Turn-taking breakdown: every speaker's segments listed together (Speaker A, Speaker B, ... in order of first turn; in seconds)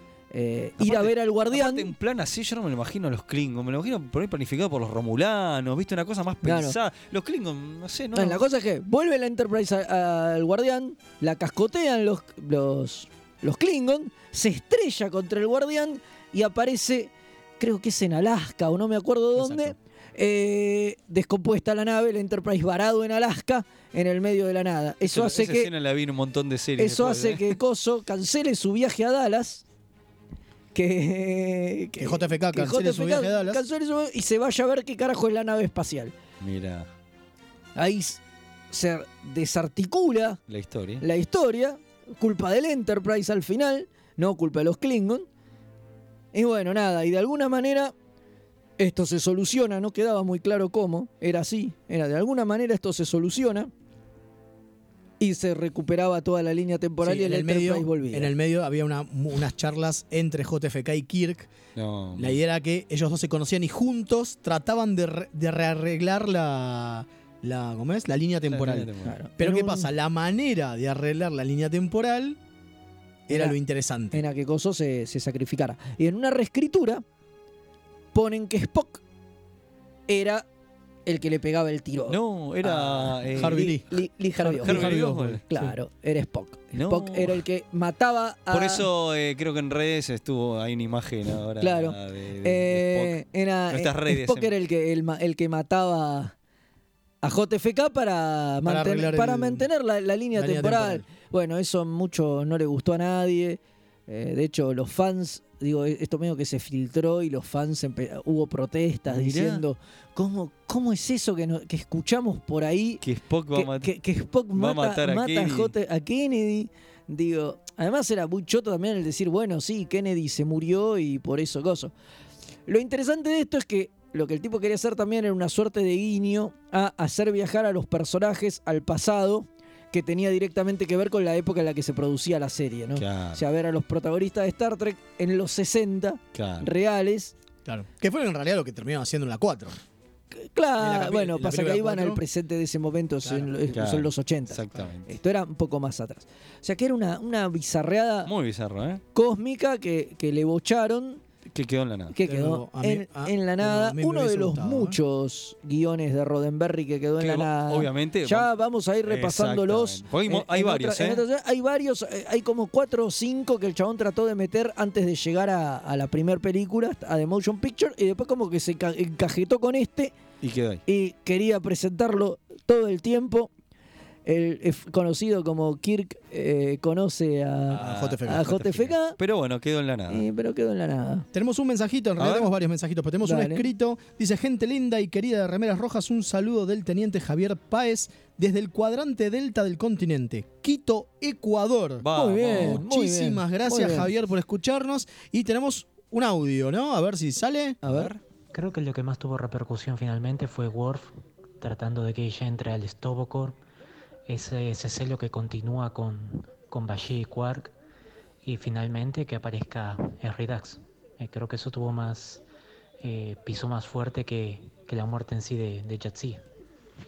Speaker A: 0.3-1.9, 6.4-6.8, 8.1-25.7, 26.8-29.6, 30.7-36.1, 37.7-40.4, 41.0-45.3, 46.3-47.9, 48.8-53.7, 55.2-58.3, 69.0-69.9, 73.3-73.5, 74.1-77.0, 78.1-79.0, 80.1-80.5, 81.0-88.8, 91.6-96.3, 97.2-113.0, 113.5-121.9, 122.7-137.3, 140.3-148.3, 149.1-151.2, 152.1-170.1, 170.9-173.5, 174.2-179.2, 180.1-181.2, 183.2-183.6, 192.1-194.1, 197.8-198.1
Speaker B: 0.8-8.4, 19.4-19.8, 25.0-27.6, 36.4-36.9, 40.5-41.0, 61.8-62.4, 68.5-69.1, 82.1-83.7, 84.6-85.4, 86.7-87.4, 88.5-93.2, 93.7-94.5, 109.1-109.6, 113.0-113.9, 114.5-115.7, 132.9-133.4, 136.3-136.7, 143.7-145.1, 148.2-149.0, 151.5-152.1, 157.2-158.5, 159.1-161.2, 170.4-170.8, 177.7-180.2, 182.2-182.5, 192.0-192.8, 197.8-198.2
Speaker C: 32.0-33.6, 57.0-61.5, 62.1-72.4, 73.3-74.2, 83.4-83.8, 84.4-85.6, 98.6-99.7, 100.3-101.0, 137.6-139.8, 140.8-142.2, 143.2-143.5, 152.2-155.0, 177.8-178.4, 181.3-197.8
Speaker D: 198.5-203.6, 204.3-207.7, 208.4-212.4, 213.0-216.4